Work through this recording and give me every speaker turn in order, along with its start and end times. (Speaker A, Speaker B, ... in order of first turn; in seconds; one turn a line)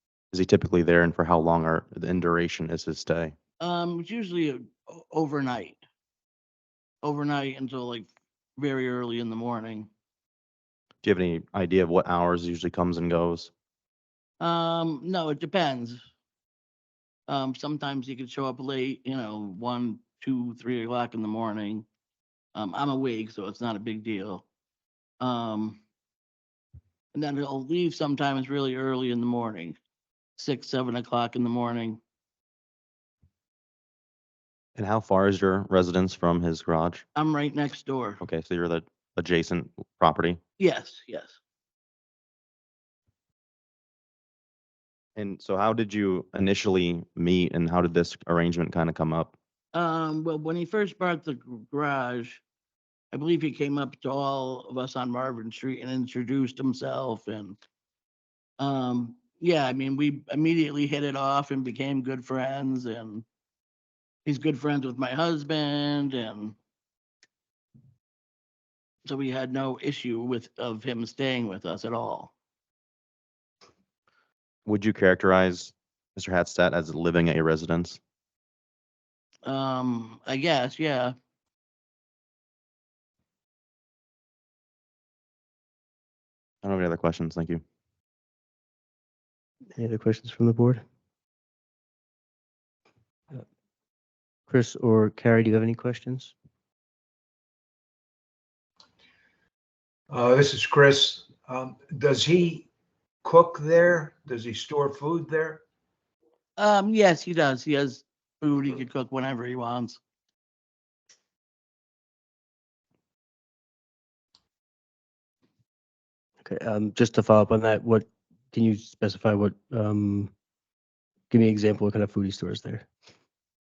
Speaker A: 0.3-3.4
Speaker B: 3.6-5.8
Speaker B: 7.0-9.9
Speaker A: 11.0-13.5
Speaker B: 14.4-16.0
Speaker B: 17.3-21.9
Speaker B: 22.6-24.5
Speaker B: 25.2-25.8
Speaker B: 27.1-29.8
Speaker B: 30.4-32.0
Speaker A: 34.8-37.0
Speaker B: 37.2-38.2
Speaker A: 38.2-40.4
Speaker B: 40.6-41.4
Speaker A: 45.2-49.3
Speaker B: 49.7-52.4
Speaker B: 53.1-57.6
Speaker B: 58.6-63.3
Speaker B: 64.2-66.6
Speaker B: 69.1-72.3
Speaker A: 74.7-78.0
Speaker B: 79.5-81.2
Speaker A: 86.6-87.6
Speaker C: 89.8-90.8
Speaker C: 94.5-96.3
Speaker D: 100.1-102.7
Speaker D: 103.2-105.6
Speaker B: 106.6-110.0
Speaker C: 116.4-120.3
Speaker C: 121.3-122.9